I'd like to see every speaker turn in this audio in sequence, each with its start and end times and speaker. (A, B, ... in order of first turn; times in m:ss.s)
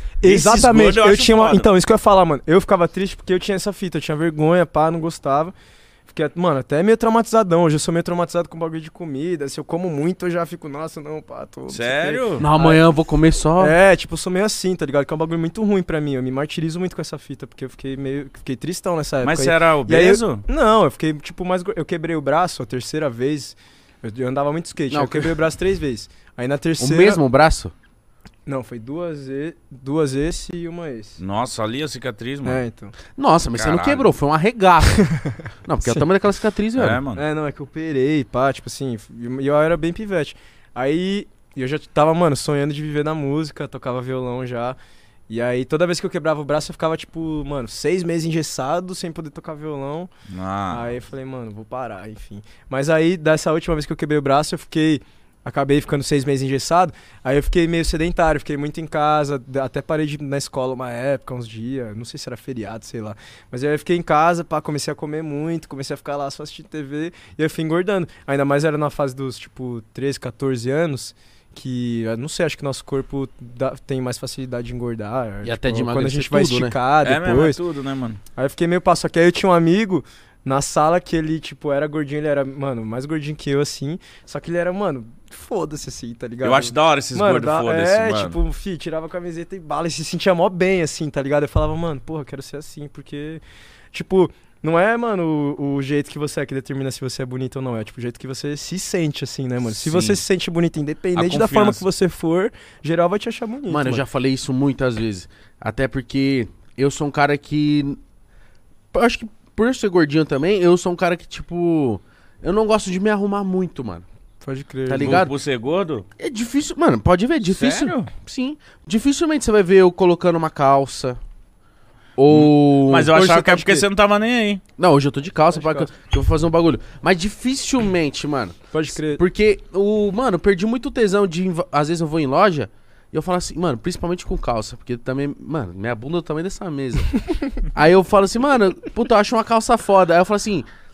0:00.2-0:05.5 A
0:00.2-0:01.7 B
0:06.1-0:12.8 A
0:11.7-0:12.4 B
0:12.4-0:13.7 C
0:13.6-0:27.2 A
0:19.2-0:20.4 B
0:24.9-0:25.4 C
0:26.8-0:27.7 C
0:28.5-0:31.2 A
0:31.2-0:32.6 B
0:32.4-0:33.0 A
0:33.2-0:35.1 C
0:33.5-0:34.1 B
0:35.0-0:36.0 A
0:35.7-0:37.0 C
0:36.8-0:37.2 B
0:37.1-0:44.8 A
0:45.3-0:50.1 A
0:50.3-0:50.9 B
0:50.7-1:17.6 A
1:15.4-1:16.8 C
1:17.0-1:18.2 B
1:18.4-1:33.4 A
1:26.4-1:28.4 B
1:33.9-1:44.0 A
1:39.8-1:40.2 B
1:41.2-1:41.9 B
1:43.7-1:48.0 C
1:48.9-1:54.0 C
1:54.4-1:55.2 A
1:54.9-1:55.3 C
1:55.0-1:56.1 B
1:56.2-2:01.2 C
1:57.6-1:58.1 B
2:02.2-2:03.5 C
2:02.3-2:04.6 B
2:03.2-2:03.9 A
2:04.8-2:20.7 C
2:05.5-2:05.9 A
2:08.7-2:09.2 A